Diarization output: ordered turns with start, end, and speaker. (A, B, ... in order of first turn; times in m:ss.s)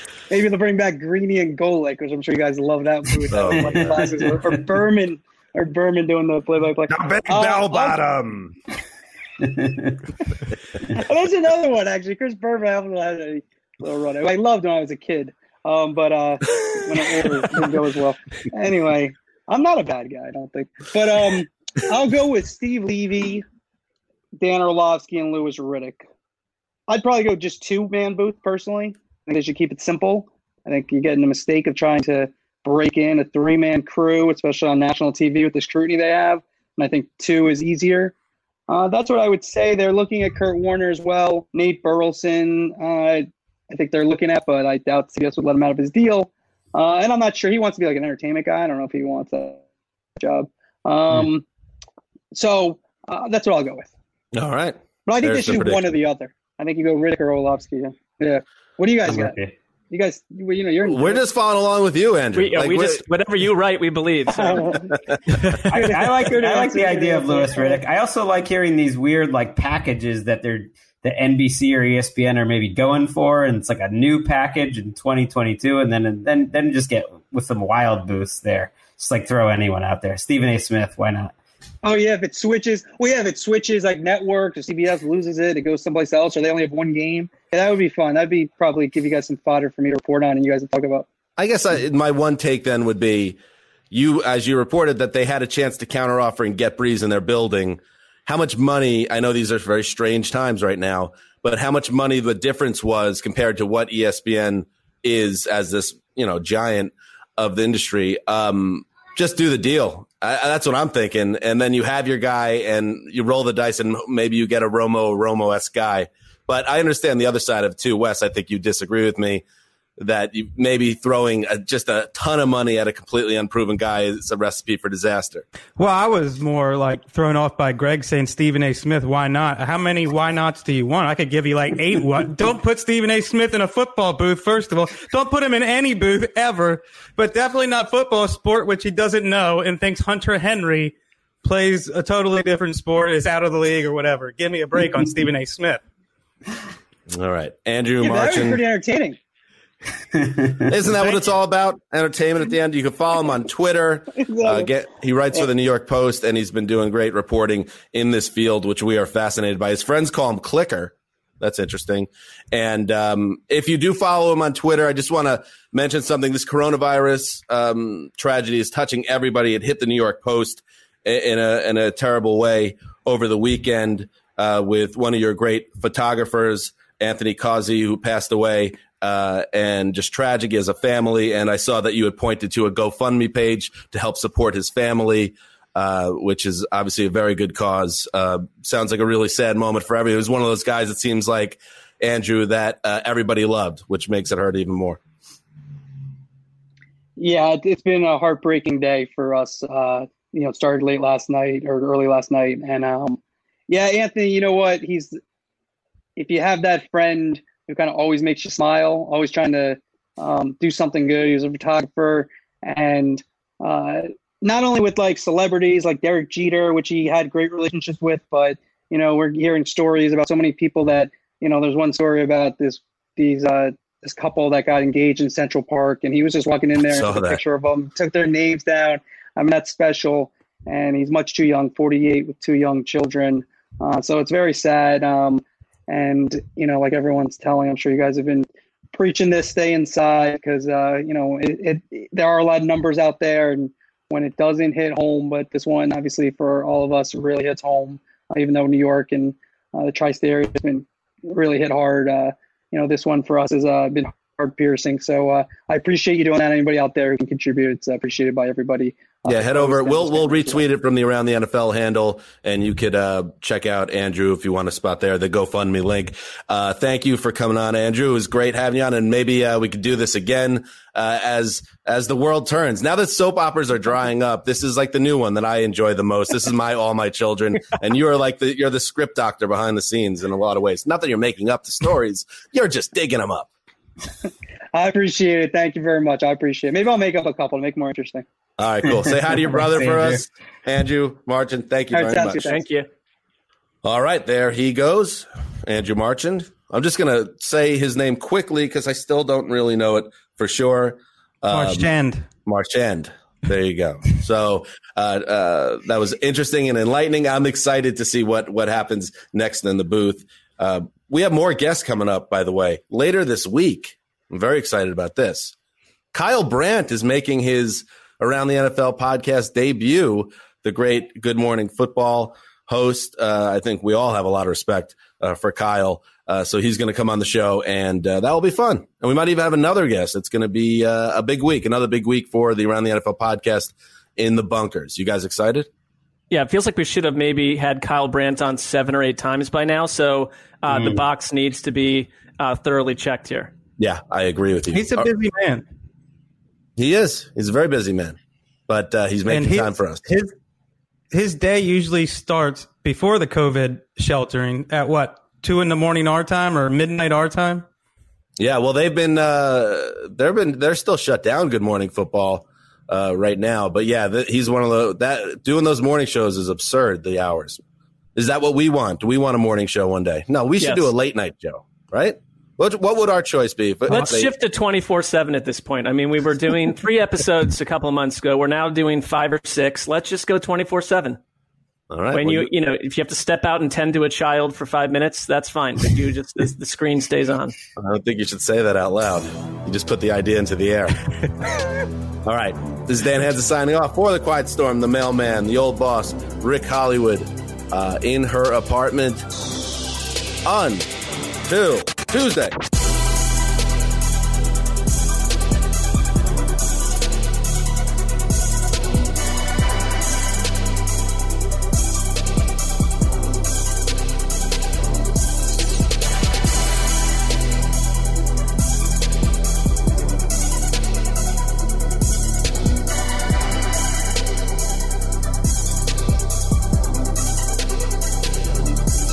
0:00.3-0:08.0 A
0:03.3-0:04.3 B
0:06.9-0:08.5 B
0:09.4-0:10.0 C
0:11.0-0:23.4 A
0:24.4-0:26.0 A
0:26.9-0:38.1 A
0:38.7-0:49.6 A
0:50.2-0:51.4 A
0:52.3-0:53.9 A
0:54.3-0:56.0 B
0:55.1-0:59.4 A
0:59.1-0:59.5 C
0:59.9-1:01.2 A
1:00.9-1:03.0 B
1:02.4-1:04.8 D
1:04.3-1:05.0 A
1:05.7-1:21.3 C
1:05.7-1:07.8 A
1:21.8-1:31.1 A
1:31.4-1:33.4 B
1:33.9-1:59.4 B
2:00.0-2:05.4 B
2:05.8-2:25.8 E
2:27.1-2:28.6 B
2:28.0-2:29.2 A
2:30.2-2:30.6 C
2:30.7-3:15.0 B
2:34.2-2:34.7 A
3:17.2-3:25.2 A
3:26.2-4:20.6 A
3:46.9-3:47.4 B
4:19.3-4:43.5 B
4:44.7-4:48.2 A
4:48.6-4:52.5 B
4:49.0-4:50.2 C
4:51.9-4:52.6 A
4:52.4-4:52.9 D
4:53.8-5:01.9 B
5:01.5-5:02.2 E
5:02.5-5:15.5 B
5:16.1-5:35.7 B
5:36.3-5:43.5 D
5:43.8-5:45.1 B
5:44.7-5:45.6 E
5:46.8-5:48.2 B
5:48.7-5:50.0 B
5:49.3-5:50.3 E
5:51.1-5:57.6 E
5:58.4-6:07.6 B
6:08.2-6:14.3 B
6:10.6-6:10.9 D
6:13.9-6:21.2 D
6:21.9-6:22.5 B
6:22.1-6:27.6 D
6:27.8-6:31.0 B
6:32.2-6:39.2 B
6:40.4-6:40.9 B
6:41.5-6:42.6 B